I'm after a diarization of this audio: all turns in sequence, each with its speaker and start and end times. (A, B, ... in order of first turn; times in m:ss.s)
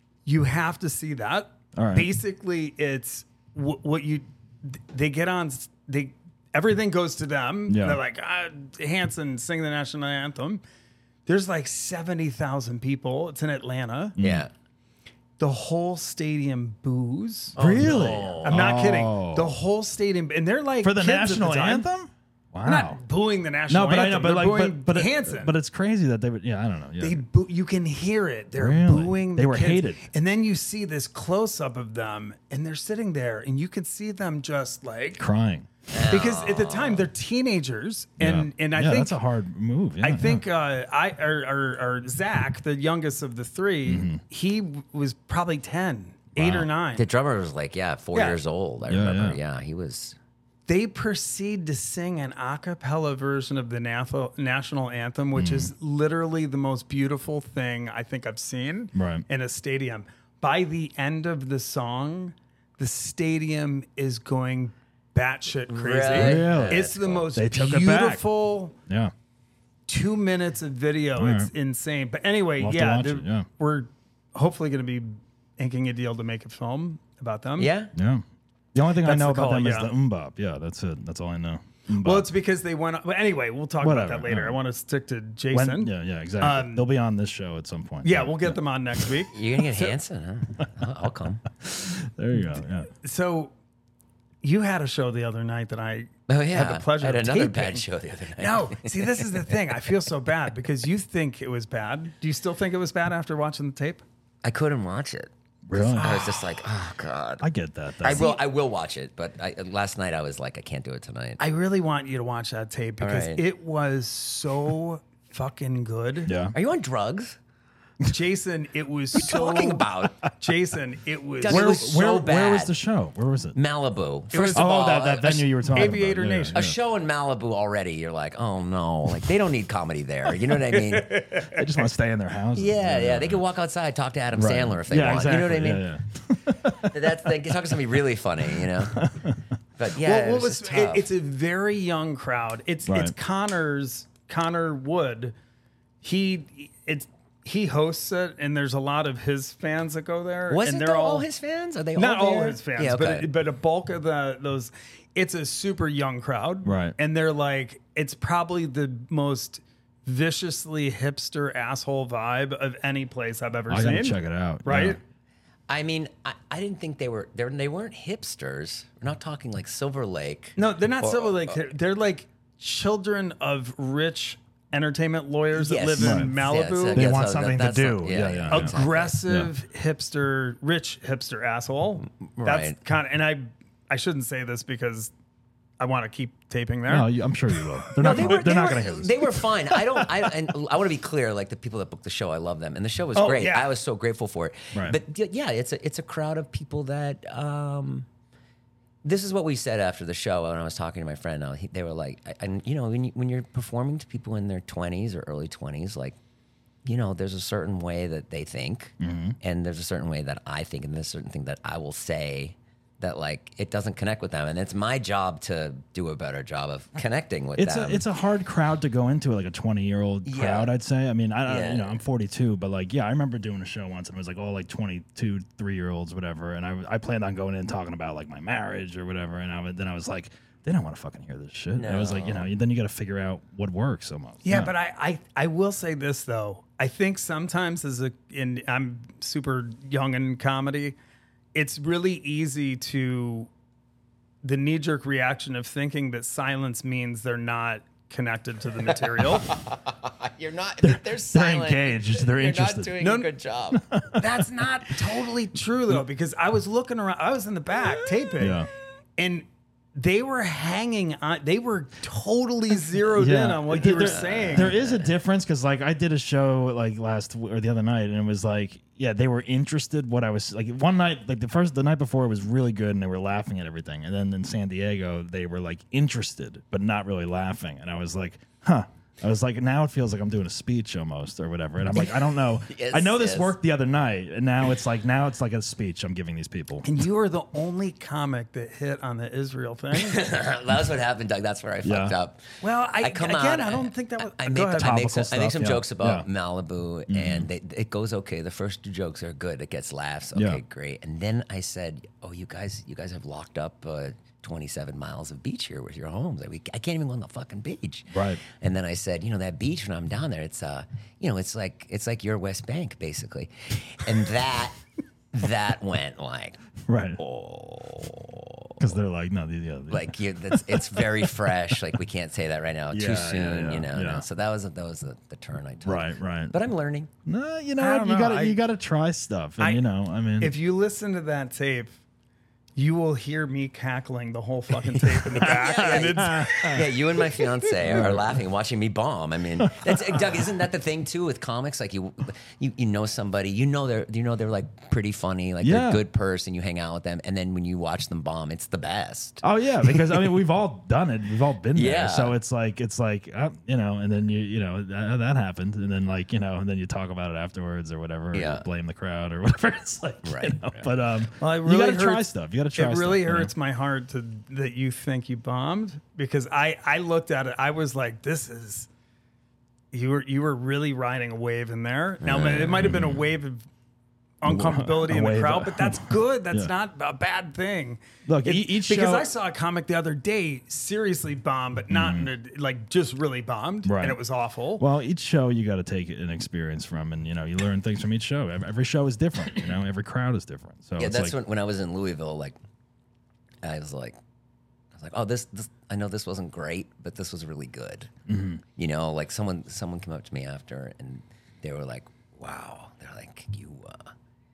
0:00.2-0:10.6 A
0:01.7-0:02.1 B
0:07.7-0:08.0 B
0:11.3-0:14.2 A
0:14.2-0:14.4 B
0:14.2-0:14.5 C
0:15.4-0:21.9 A
0:17.5-0:18.6 C
0:17.6-0:19.5 B
0:20.8-0:23.0 B
0:22.6-0:25.6 A
0:23.7-0:27.2 B
0:27.0-0:35.2 A
0:28.6-0:30.0 B
0:35.2-0:35.7 B
0:35.9-0:37.1 C
0:36.1-0:39.2 A
0:38.2-0:40.4 B
0:40.0-0:47.1 A
0:43.8-0:44.2 B
0:46.4-0:46.7 B
0:47.0-0:50.2 C
0:48.1-0:48.4 A
0:48.9-0:49.4 B
0:50.7-1:08.7 A
0:55.3-0:55.7 B
0:58.9-0:59.2 B
1:05.7-1:07.3 C
1:06.1-1:08.2 B
1:08.9-1:09.1 B
1:09.9-1:17.7 A
1:11.2-1:11.5 B
1:12.6-1:13.5 B
1:17.6-1:17.9 C
1:17.9-1:22.3 B
1:19.0-1:19.9 A
1:21.9-1:26.8 A
1:23.8-1:24.6 B
1:25.5-1:28.6 B
1:28.0-1:29.6 A
1:29.3-1:31.4 C
1:31.6-1:32.9 B
1:33.0-1:33.5 A
1:34.4-1:37.8 A
1:36.3-1:39.3 C
1:38.4-1:44.0 A
1:44.4-1:47.5 C
1:45.6-1:46.3 B
1:45.9-1:46.4 A
1:47.4-1:48.3 B
1:48.0-1:51.4 C
1:48.0-1:48.4 A
1:51.4-1:56.3 A
1:53.0-1:53.4 C
1:56.2-1:56.5 B
1:56.5-1:57.4 C
1:58.0-2:01.8 A
1:59.1-2:00.2 C
2:01.4-2:02.7 C
2:01.5-2:03.6 B
2:03.5-2:05.5 C
2:04.3-2:04.8 A
2:04.5-2:06.8 B
2:05.7-2:06.6 A
2:06.5-2:11.3 C
2:10.7-2:11.6 A
2:11.5-2:13.4 B
2:12.5-2:15.9 C
2:14.3-2:17.2 B
2:16.7-2:19.1 C
2:18.5-2:19.4 B
2:19.8-2:21.0 C
2:20.0-2:25.4 A
2:22.8-2:23.1 B
2:26.0-2:31.3 A
2:30.5-2:33.3 C
2:31.9-2:45.0 A
2:36.6-2:37.0 B
2:43.7-2:45.0 B
2:45.7-2:51.6 C
2:50.6-2:57.1 A
2:55.5-2:59.2 C
2:56.0-2:56.3 B
2:56.9-2:58.7 B
2:58.5-3:05.1 A
2:59.2-2:59.5 B
3:02.0-3:02.8 C
3:05.8-3:07.1 A
3:06.8-3:10.3 B
3:08.0-3:18.1 C
3:08.0-3:08.5 A
3:13.1-3:13.7 A
3:19.0-3:26.2 C
3:26.8-3:38.0 C
3:29.0-3:29.4 B
3:37.6-3:54.7 B
3:40.2-3:40.7 C
3:41.4-3:42.0 C
3:51.7-3:52.5 C
3:54.4-4:01.0 A
4:01.5-4:03.5 A
4:04.4-4:09.5 A
4:08.9-4:13.9 C
4:10.8-4:13.0 B
4:13.0-4:13.3 A
4:13.7-4:14.4 B
4:14.1-4:18.6 A
4:17.8-4:18.7 B
4:19.2-4:24.7 A
4:23.1-4:47.0 B
4:23.8-4:25.1 C
4:41.9-4:43.5 C
4:46.8-4:50.2 A
4:49.9-5:14.8 C
4:51.8-4:52.2 B
4:52.6-4:55.2 A
4:54.8-4:56.3 B
4:57.1-4:57.5 B
5:00.3-5:00.6 B
5:08.1-5:08.4 B
5:15.3-5:16.6 C
5:16.8-5:17.2 B
5:17.2-5:18.9 C
5:18.8-5:21.8 B
5:19.9-5:27.1 C
5:22.9-5:24.2 B
5:25.8-5:26.6 B
5:27.2-5:30.5 B
5:27.8-5:28.6 A
5:29.6-5:29.8 A
5:30.4-5:32.0 A
5:32.8-5:37.4 A
5:34.9-5:36.8 B
5:35.3-5:50.2 C
5:37.8-5:38.3 B
5:39.6-5:40.4 B
5:45.6-5:46.0 B
5:49.4-6:03.5 B
5:51.7-5:52.3 C
5:58.3-5:58.6 C
6:00.2-6:00.9 C
6:01.4-6:08.9 A
6:09.9-6:13.6 A
6:12.2-6:13.0 C
6:12.8-6:13.2 B
6:14.4-6:24.8 A
6:14.4-6:16.7 B
6:18.2-6:19.3 B
6:21.9-6:22.3 B
6:23.8-6:24.2 B
6:24.8-6:31.4 B
6:31.0-6:32.6 C
6:33.6-6:34.2 C
6:34.9-6:38.1 C
6:38.3-6:38.6 B
6:38.8-6:44.1 C